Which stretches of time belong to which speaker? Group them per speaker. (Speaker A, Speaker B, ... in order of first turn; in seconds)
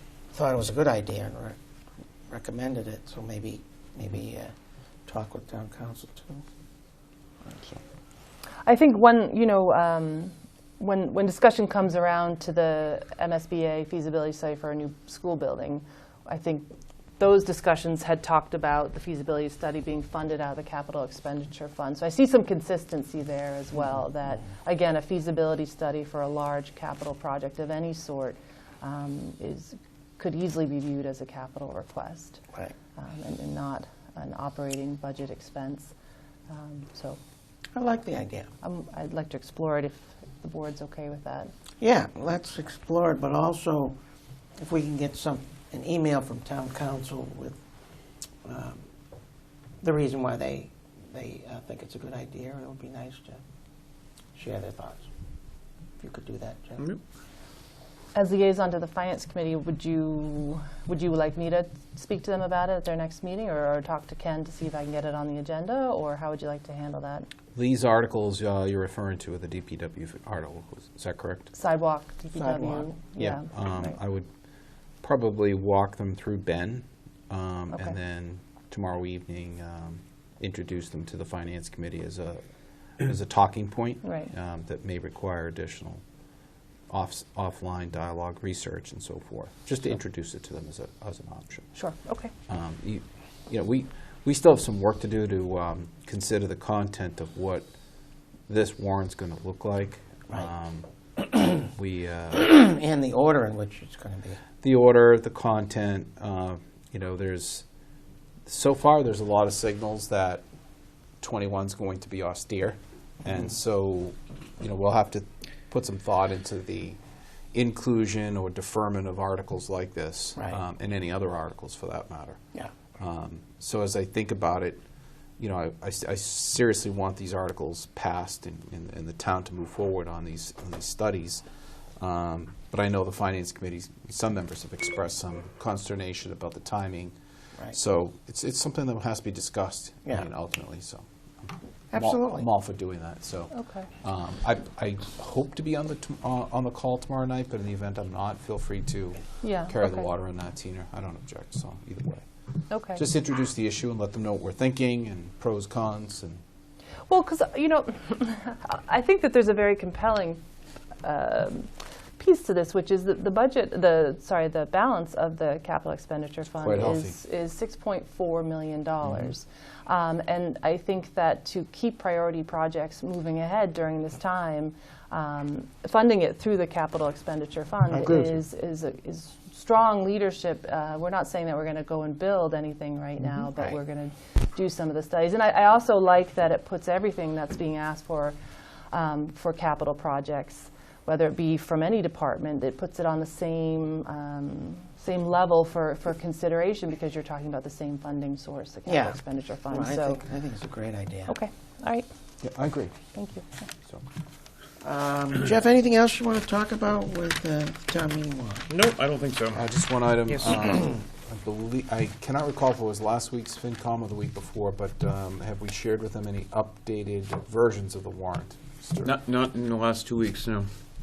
Speaker A: 0.3-1.6, 2.3-4.5, 5.1-6.4, 7.5-7.8, 37.7-38.5, 41.8-44.0, 44.6-47.6, 48.4-48.9, 49.8-53.4, 54.3-55.1, 56.0-56.8, 72.3-72.9, 102.3-104.4, 141.9-142.4, 177.9-178.3, 183.4-183.8, 198.8-199.2, 199.7-201.3, 204.8-208.7
Speaker B: 8.6-32.4, 33.0-35.9, 36.5-37.2, 38.6-41.5, 58.1-67.3, 71.5-74.0, 84.0-84.3, 91.7-92.3, 143.5-143.9, 149.4-150.1, 152.7-153.0, 157.1-160.4, 161.0-188.3, 188.9-200.2, 201.3-202.1, 203.1-203.6
Speaker C: 67.5-71.5, 73.2-74.3, 75.0-82.4, 83.0-86.0, 86.9-91.7, 92.5-97.7, 98.5-100.9, 101.5-102.4, 104.6-107.7, 108.5-110.4, 111.2-117.0, 117.5-122.4, 123.0-124.8, 125.4-131.4, 132.0-137.2, 137.7-141.1, 141.9-152.2, 152.9-156.4, 166.6-167.2, 202.4-202.9, 209.5-219.2
Speaker D: 208.7-209.6, 219.0-220.7